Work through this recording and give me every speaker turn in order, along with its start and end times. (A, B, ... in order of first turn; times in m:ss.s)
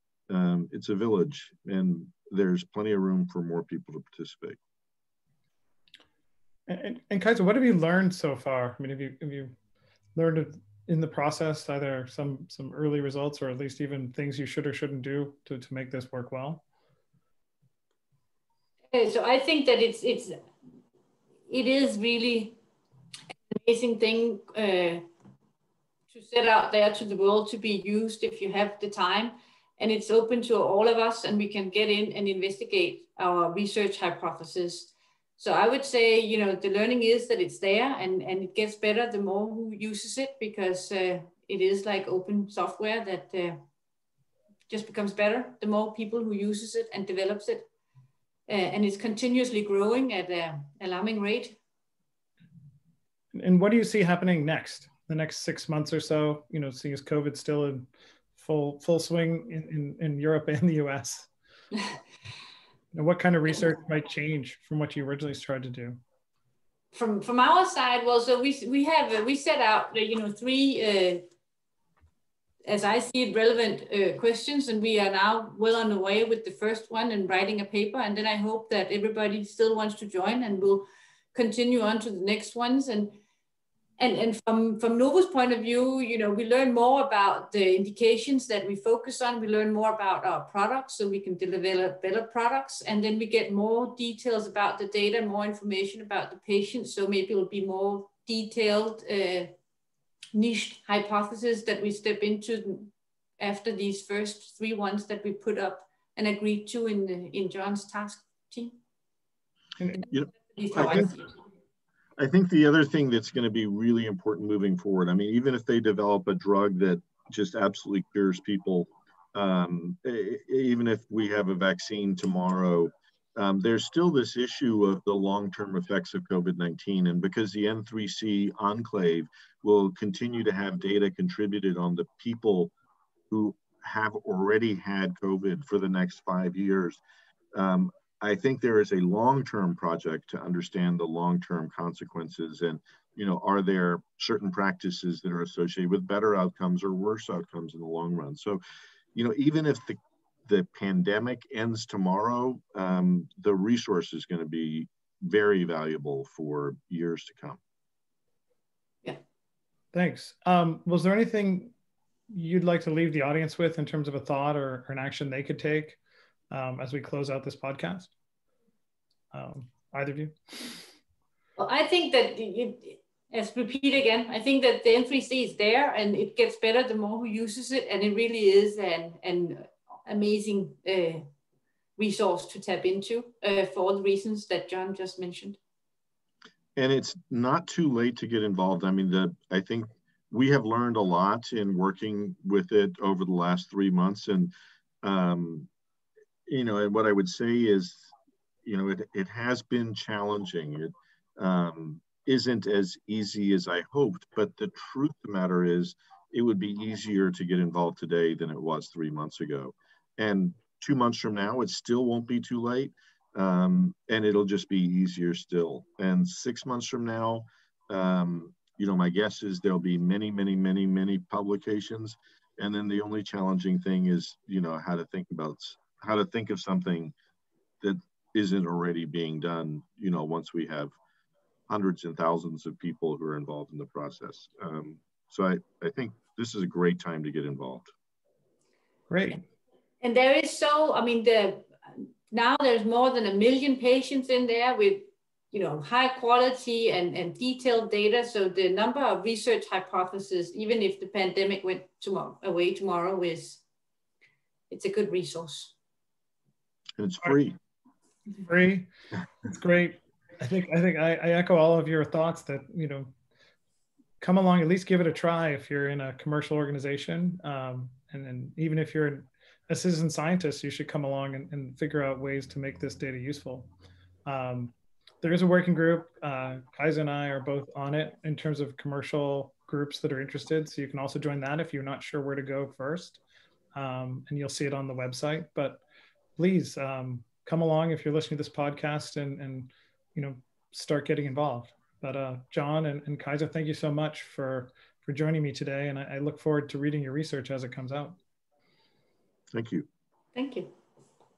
0:00.3-0:04.6 A
0:06.7-0:09.5 B
0:10.1-0:16.6 B
0:18.9-0:20.4 C
0:21.5-0:22.6 C
0:23.5-0:25.0 C
0:26.1-0:43.6 C
0:44.7-0:47.6 C
0:48.5-0:51.6 C
0:53.3-1:01.3 B
1:02.9-1:06.0 B
1:06.9-1:11.3 C
1:12.6-1:23.2 C
1:24.0-1:39.5 C
1:40.3-1:48.8 C
1:49.8-1:50.1 B
1:50.1-1:51.1 A
1:50.3-1:51.3 C
1:52.2-2:12.7 A
2:13.3-2:17.0 A
2:17.5-2:28.6 A
2:29.1-2:37.6 A
2:39.9-2:41.7 B
2:42.3-2:46.0 B
2:46.5-2:48.1 B
2:49.3-2:50.8 B
2:51.6-3:01.2 C
3:02.0-3:05.6 C
3:06.8-3:14.5 A
3:15.0-3:15.7 A
3:16.5-3:18.1 A
3:18.6-3:47.1 A
3:47.8-3:50.9 A
3:51.7-3:57.9 A
3:59.1-3:59.4 B
4:00.0-4:13.6 C
4:14.7-4:15.7 C
4:17.0-4:17.6 A
4:18.4-4:18.9 B
4:19.4-4:23.1 B
4:24.2-4:33.7 B
4:34.2-4:43.2 B
4:43.8-4:45.8 B
4:46.4-4:58.2 B
4:59.5-4:59.9 A
5:00.4-5:00.7 C